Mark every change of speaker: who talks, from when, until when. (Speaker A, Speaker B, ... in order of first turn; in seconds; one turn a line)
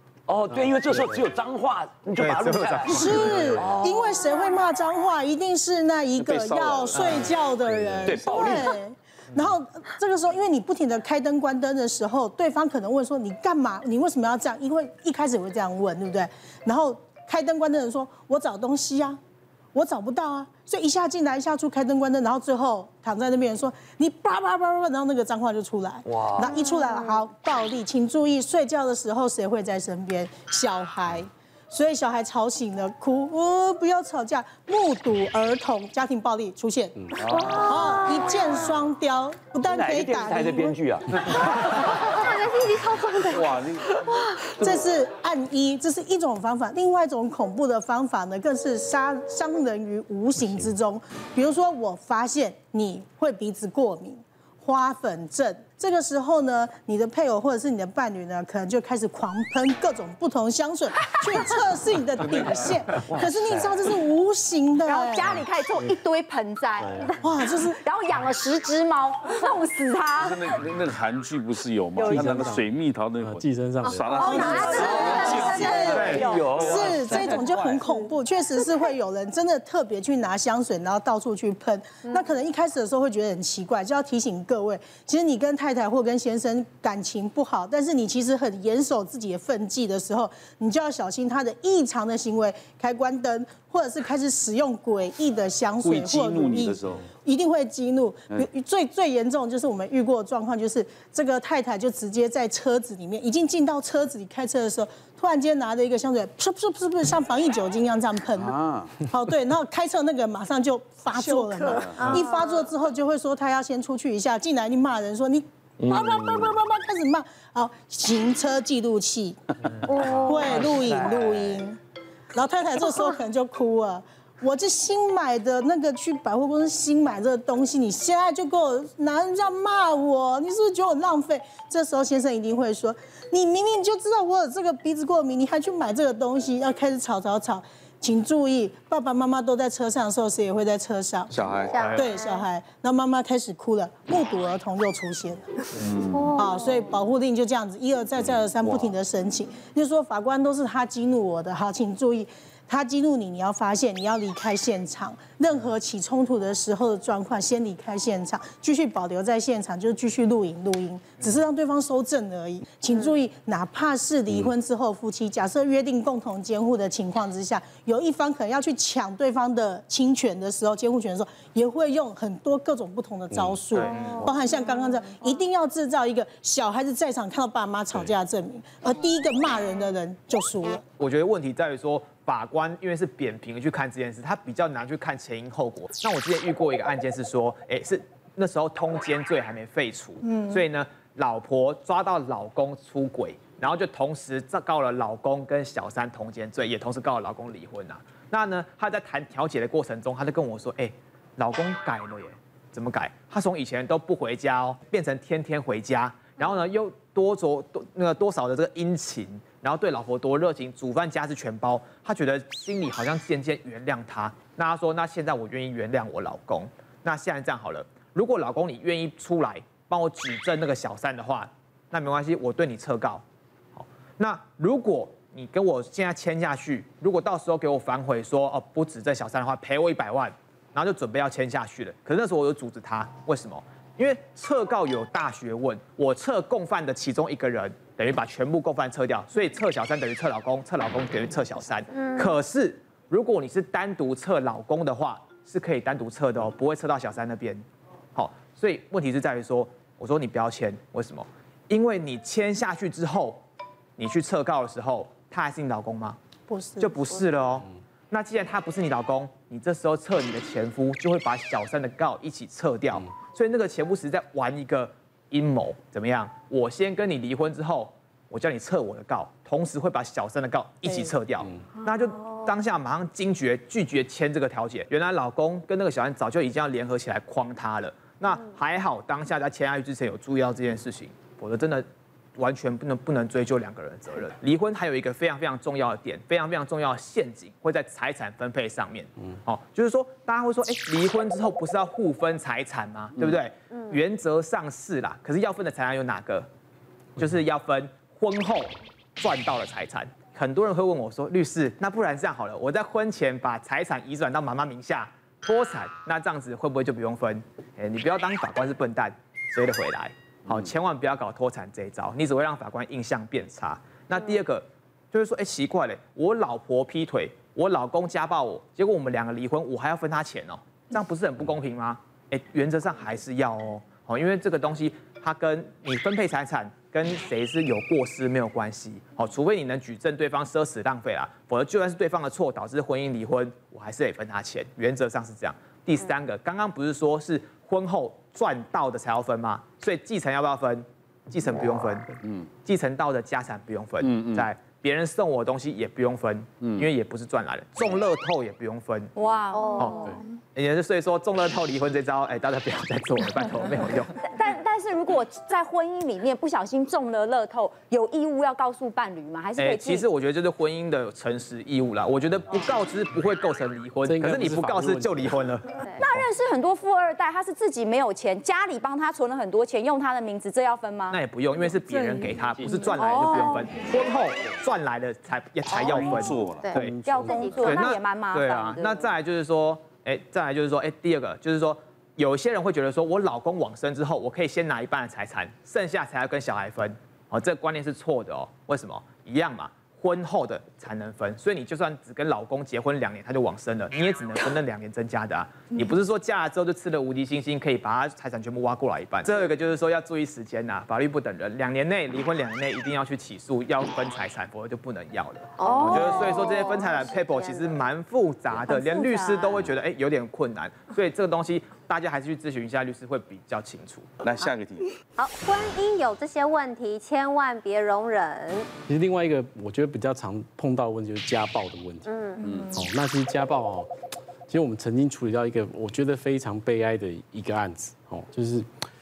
Speaker A: 0.3-4.4
Speaker B: 0.5-1.2
Speaker B: 2.2-3.7
Speaker C: 2.9-19.2
Speaker A: 6.2-7.3
Speaker A: 8.0-8.8
Speaker C: 19.7-40.8
Speaker A: 26.1-26.6
Speaker D: 37.3-37.7
Speaker A: 37.4-37.8
Speaker A: 39.6-42.1
Speaker E: 42.0-43.4
Speaker D: 43.2-44.0
Speaker C: 44.6-65.4
Speaker D: 62.2-62.8
Speaker A: 63.1-63.5
Speaker E: 64.8-67.2
Speaker F: 66.8-67.1
Speaker C: 67.2-67.8
Speaker E: 67.8-70.5
Speaker D: 70.2-75.9
Speaker F: 72.0-72.7
Speaker F: 73.2-74.7
Speaker E: 74.1-76.4
Speaker C: 74.2-121.8
Speaker A: 75.7-77.3
Speaker B: 75.9-76.3
Speaker D: 95.8-97.1
Speaker D: 108.3-109.0
Speaker D: 111.7-112.2
Speaker A: 115.8-116.5
Speaker A: 119.9-121.6
Speaker C: 122.3-141.3
Speaker D: 141.3-141.8
Speaker C: 141.9-180.8
Speaker D: 145.8-146.4
Speaker B: 173.7-174.3
Speaker E: 174.0-174.2
Speaker B: 181.0-223.2
Speaker C: 190.3-190.6
Speaker B: 223.8-253.4
Speaker B: 254.0-256.2
Speaker C: 256.5-257.0
Speaker B: 256.8-281.9
Speaker C: 270.9-271.1
Speaker B: 282.4-296.5
Speaker B: 297.2-342.1
Speaker B: 342.6-349.1
Speaker D: 344.0-344.5
Speaker D: 346.6-346.9
Speaker E: 349.1-350.2
Speaker B: 350.6-354.1
Speaker E: 354.2-360.1
Speaker B: 359.6-366.3
Speaker F: 364.1-365.4
Speaker E: 366.0-371.2
Speaker B: 371.1-414.1
Speaker E: 371.9-373.7
Speaker D: 375.7-377.7
Speaker E: 376.6-379.1
Speaker E: 405.6-407.6
Speaker E: 408.6-409.7
Speaker D: 414.2-414.9
Speaker E: 415.2-416.4
Speaker G: 415.3-415.7
Speaker G: 416.2-418.6
Speaker F: 418.9-422.1
Speaker D: 422.4-422.8
Speaker F: 422.7-423.9
Speaker F: 424.5-428.7